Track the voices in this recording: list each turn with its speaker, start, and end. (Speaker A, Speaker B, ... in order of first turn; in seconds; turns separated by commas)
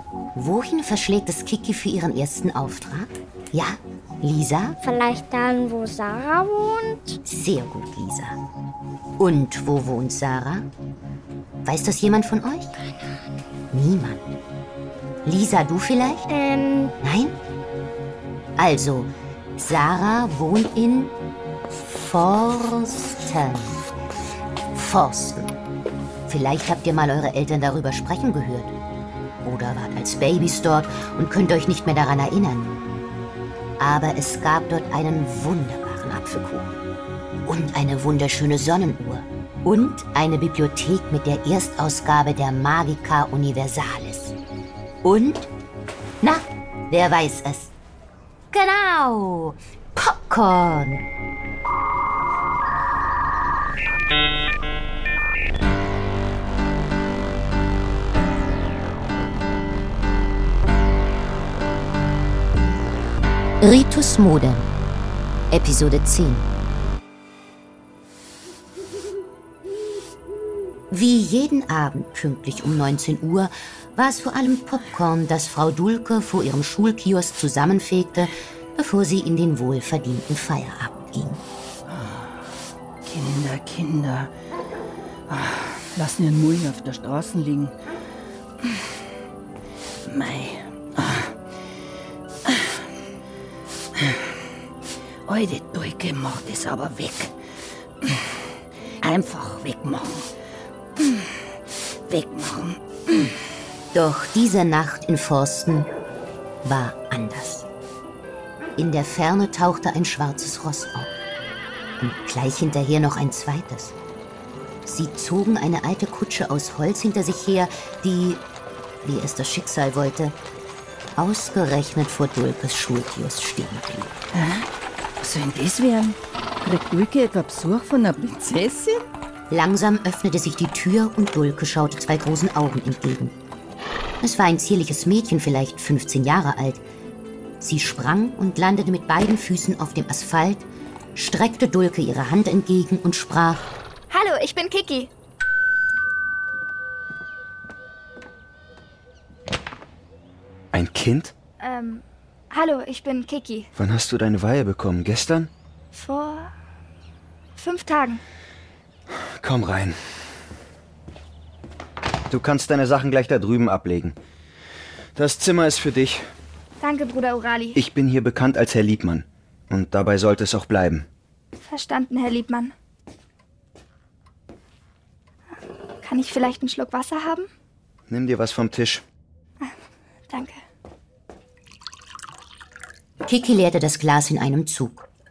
Speaker A: 0.3-4.8, Speaker B: 4.8-7.2, Speaker A: 7.2-8.4, Speaker A: 9.2-10.7, Speaker A: 11.6-12.7, Speaker A: 13.7-14.3, Speaker A: 15.2-16.3, Speaker B: 16.3-16.9, Speaker A: 17.0-17.4, Speaker A: 18.6-21.1, Speaker A: 21.7-23.8, Speaker A: 24.7-25.6, Speaker A: 26.3-28.7, Speaker A: 29.4-32.8, Speaker A: 33.8-36.8, Speaker A: 37.5-44.4, Speaker A: 45.0-45.5, Speaker A: 46.2-47.7, Speaker A: 48.5-51.0, Speaker A: 63.6-64.7, Speaker A: 65.5-66.5, Speaker A: 70.9-81.4, Speaker C: 81.9-82.4, Speaker C: 83.0-84.3, Speaker C: 85.3-87.7, Speaker C: 90.0-91.3, Speaker C: 92.5-92.8, Speaker C: 94.0-94.3, Speaker C: 95.2-97.3, Speaker C: 98.0-98.4, Speaker C: 99.0-100.3, Speaker C: 101.0-101.4, Speaker C: 102.0-103.3, Speaker A: 103.9-105.9, Speaker A: 106.6-107.7, Speaker A: 108.8-111.1, Speaker A: 112.0-114.0, Speaker A: 114.8-118.5, Speaker A: 119.0-120.4, Speaker A: 121.2-124.1, Speaker C: 124.3-124.7, Speaker C: 125.2-129.1, Speaker A: 129.5-133.3, Speaker A: 134.2-136.8, Speaker A: 137.6-143.7, Speaker D: 144.1-145.1, Speaker E: 150.7-151.3, Speaker D: 151.6-153.7, Speaker E: 153.8-155.5, Speaker D: 155.9-156.5, Speaker D: 157.5-158.2, Speaker E: 159.1-160.0, Speaker E: 162.3-164.2, Speaker E: 165.2-166.2, Speaker D: 166.8-167.8, Speaker E: 167.7-171.1, Speaker D: 171.6-172.7, Speaker D: 176.0-177.5, Speaker E: 178.1-179.0, Speaker D: 180.3-180.6, Speaker A: 183.2-185.1